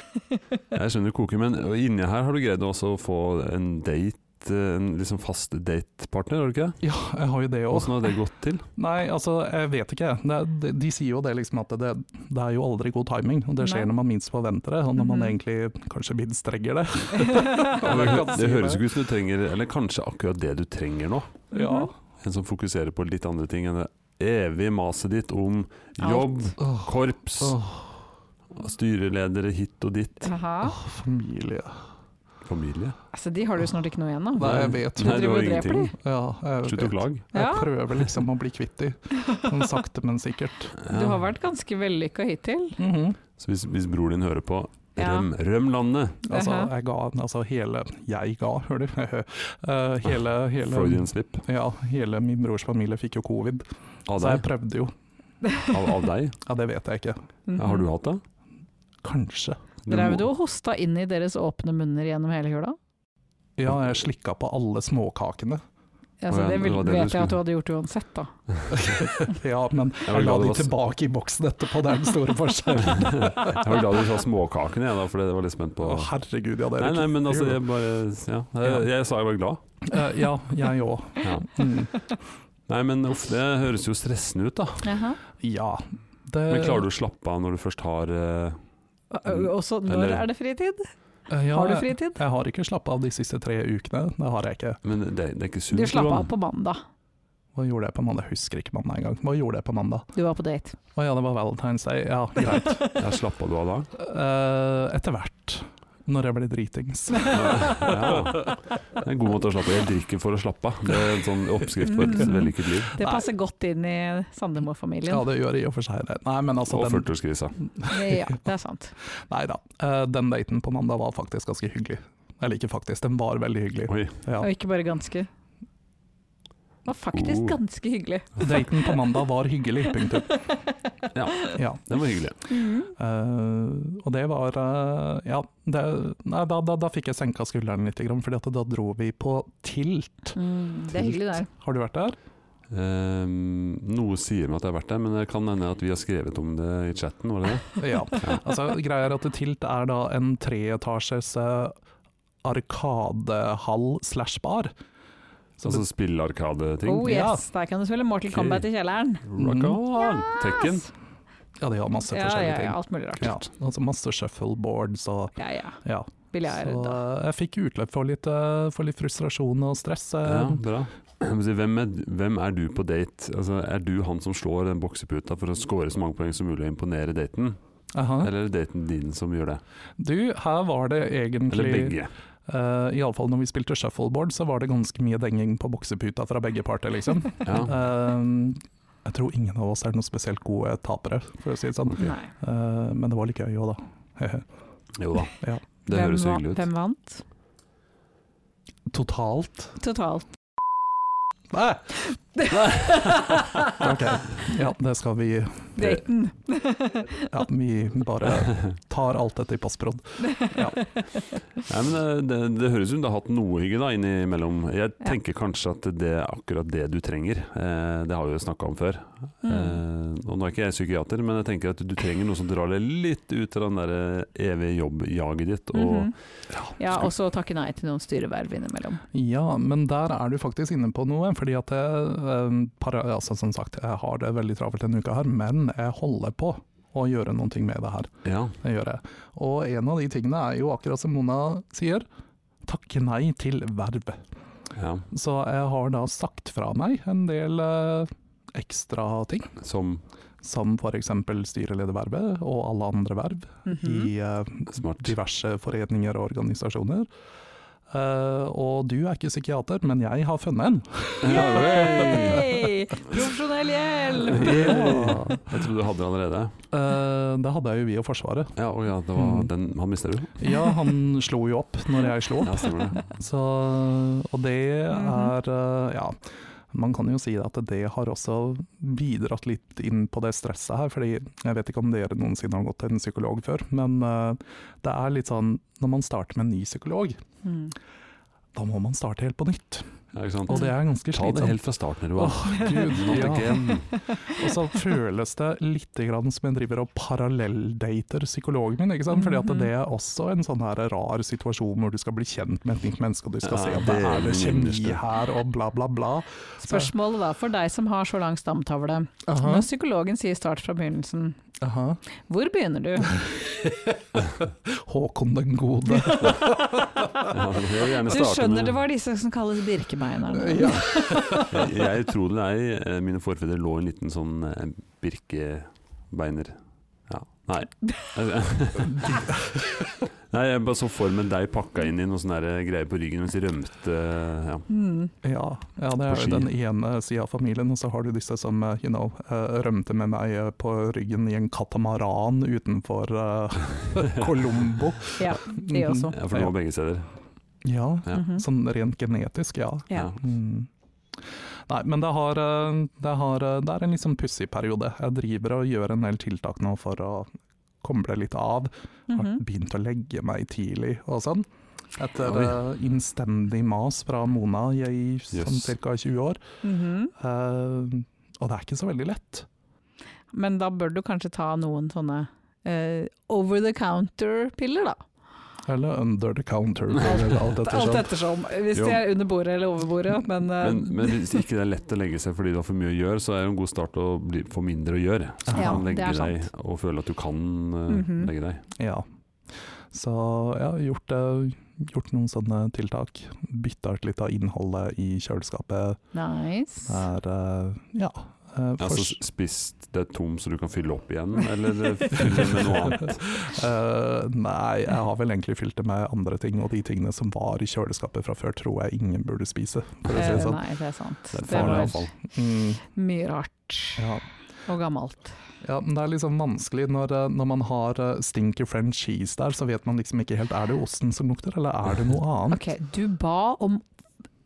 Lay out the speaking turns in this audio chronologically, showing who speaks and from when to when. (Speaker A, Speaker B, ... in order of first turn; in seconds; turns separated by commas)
Speaker A: 0.7-6.8, Speaker B: 6.8-8.1, Speaker A: 7.7-8.7, Speaker B: 8.8-18.9, Speaker C: 13.6-13.9, Speaker C: 15.0-15.3, Speaker C: 17.2-17.7, Speaker A: 17.7-21.4, Speaker B: 21.5-21.9, Speaker C: 21.5-21.9, Speaker A: 22.2-27.6, Speaker C: 26.0-26.5, Speaker B: 26.6-27.9, Speaker A: 28.5-30.3, Speaker C: 30.2-30.8, Speaker B: 30.6-31.8, Speaker A: 32.5-33.0, Speaker C: 33.1-35.9, Speaker B: 34.4-35.3, Speaker A: 34.4-35.9, Speaker B: 36.0-40.7, Speaker A: 36.6-37.3, Speaker C: 37.3-37.7, Speaker A: 40.8-41.2, Speaker C: 40.9-42.8, Speaker B: 42.8-43.2, Speaker A: 43.4-46.2, Speaker C: 45.0-45.3, Speaker B: 46.2-54.9, Speaker C: 46.3-46.7, Speaker A: 50.6-51.5, Speaker A: 54.1-54.5, Speaker A: 55.7-56.4, Speaker B: 56.5-57.2, Speaker C: 57.5-57.9, Speaker A: 57.6-58.2, Speaker B: 59.0-59.6, Speaker A: 59.9-60.3, Speaker C: 59.9-62.8, Speaker B: 63.6-65.6, Speaker C: 66.2-68.3, Speaker A: 66.3-67.4, Speaker B: 68.7-73.6, Speaker A: 70.1-70.7, Speaker A: 72.9-76.1, Speaker B: 75.8-77.6, Speaker A: 76.8-79.6, Speaker B: 79.8-82.0, Speaker A: 81.2-81.5, Speaker A: 82.7-84.9, Speaker C: 84.8-85.2, Speaker B: 85.4-86.9, Speaker A: 86.5-88.6, Speaker C: 89.1-90.9, Speaker A: 89.3-90.2, Speaker B: 91.3-94.8, Speaker C: 91.5-92.2, Speaker A: 94.8-96.3, Speaker C: 95.7-96.8, Speaker B: 97.5-100.1, Speaker C: 100.2-100.8, Speaker B: 101.0-103.0, Speaker A: 103.0-103.9, Speaker B: 104.0-108.5, Speaker C: 107.2-107.9, Speaker A: 107.2-112.9, Speaker C: 111.8-115.2, Speaker B: 112.9-113.3, Speaker B: 115.1-117.1, Speaker A: 116.7-117.6, Speaker B: 117.6-118.4, Speaker C: 117.9-118.9, Speaker B: 119.2-124.5, Speaker A: 123.9-124.2, Speaker C: 124.4-125.3, Speaker C: 126.8-128.9, Speaker A: 127.1-127.6, Speaker B: 128.4-130.4, Speaker C: 130.3-130.7, Speaker A: 131.1-132.4, Speaker B: 131.6-131.8, Speaker C: 132.5-132.9, Speaker B: 133.0-140.3, Speaker C: 140.3-141.5, Speaker B: 140.9-142.2, Speaker A: 142.7-148.4, Speaker B: 147.8-151.8, Speaker B: 152.4-154.7, Speaker A: 155.6-157.3, Speaker C: 156.9-159.2, Speaker B: 157.0-157.4, Speaker A: 158.3-158.7, Speaker A: 159.2-160.9, Speaker B: 159.4-159.8, Speaker C: 160.0-160.8, Speaker B: 161.6-170.6, Speaker C: 162.1-163.4, Speaker C: 165.4-165.8, Speaker C: 166.3-167.0, Speaker A: 170.2-177.6, Speaker B: 177.9-178.3, Speaker A: 178.2-179.6, Speaker B: 180.0-194.5, Speaker A: 181.5-182.1, Speaker A: 187.4-187.7, Speaker C: 192.0-192.3, Speaker A: 195.0-195.3, Speaker A: 195.9-196.7, Speaker C: 195.9-197.2, Speaker B: 198.9-199.8, Speaker C: 199.8-200.2, Speaker B: 201.5-201.9, Speaker C: 202.1-203.9, Speaker A: 202.6-203.4, Speaker B: 203.8-205.9, Speaker C: 205.8-207.3, Speaker B: 207.3-210.8, Speaker C: 210.3-211.3, Speaker A: 211.6-226.1, Speaker C: 219.4-219.8, Speaker C: 225.7-226.1, Speaker C: 226.8-229.0, Speaker B: 229.1-242.1, Speaker A: 238.2-238.6, Speaker B: 242.6-244.2, Speaker A: 244.8-245.1, Speaker B: 245.1-249.5, Speaker A: 249.6-250.0, Speaker B: 250.4-257.1, Speaker C: 253.7-254.1, Speaker A: 254.7-255.1, Speaker B: 257.9-262.5, Speaker A: 261.2-262.6, Speaker C: 261.3-264.9, Speaker B: 264.3-265.5, Speaker A: 264.3-266.5, Speaker B: 266.7-268.6, Speaker A: 268.6-270.4, Speaker B: 269.1-269.5, Speaker B: 270.4-276.2, Speaker A: 272.4-273.1, Speaker C: 274.9-275.3, Speaker B: 276.7-287.2, Speaker C: 287.4-287.7, Speaker B: 288.5-289.9, Speaker A: 290.1-293.9, Speaker B: 290.5-291.6, Speaker B: 292.1-306.9, Speaker C: 292.4-294.4, Speaker C: 299.1-299.7, Speaker A: 303.4-305.0, Speaker C: 306.6-311.4, Speaker B: 309.3-309.7, Speaker B: 311.6-312.0, Speaker C: 312.3-313.3, Speaker B: 313.1-314.0, Speaker B: 314.6-317.3, Speaker A: 317.2-318.8, Speaker C: 318.1-321.5, Speaker B: 320.3-321.5, Speaker A: 321.5-334.7, Speaker B: 328.9-329.6, Speaker C: 334.7-335.1, Speaker B: 335.2-346.5, Speaker A: 336.1-336.5, Speaker C: 345.2-346.2, Speaker A: 346.1-347.1, Speaker B: 347.6-357.3, Speaker C: 348.1-348.4, Speaker B: 357.8-366.4, Speaker C: 359.1-359.4, Speaker A: 362.3-362.6, Speaker A: 365.3-365.7, Speaker C: 366.6-367.1, Speaker B: 367.2-369.5, Speaker C: 370.3-375.0, Speaker B: 375.7-378.1, Speaker C: 377.0-381.4, Speaker A: 378.7-379.0, Speaker A: 380.6-388.6, Speaker B: 385.5-385.9, Speaker C: 385.5-386.5, Speaker C: 387.9-388.3, Speaker B: 388.8-389.1, Speaker B: 389.9-396.0, Speaker C: 396.1-397.0, Speaker B: 396.9-399.2, Speaker A: 398.8-403.3, Speaker B: 402.2-410.6, Speaker A: 410.1-410.6, Speaker C: 410.1-412.1, Speaker A: 411.3-412.1, Speaker B: 411.5-412.8, Speaker C: 412.9-414.1, Speaker B: 414.0-414.3, Speaker C: 414.7-415.4, Speaker B: 415.6-422.6, Speaker C: 422.5-423.9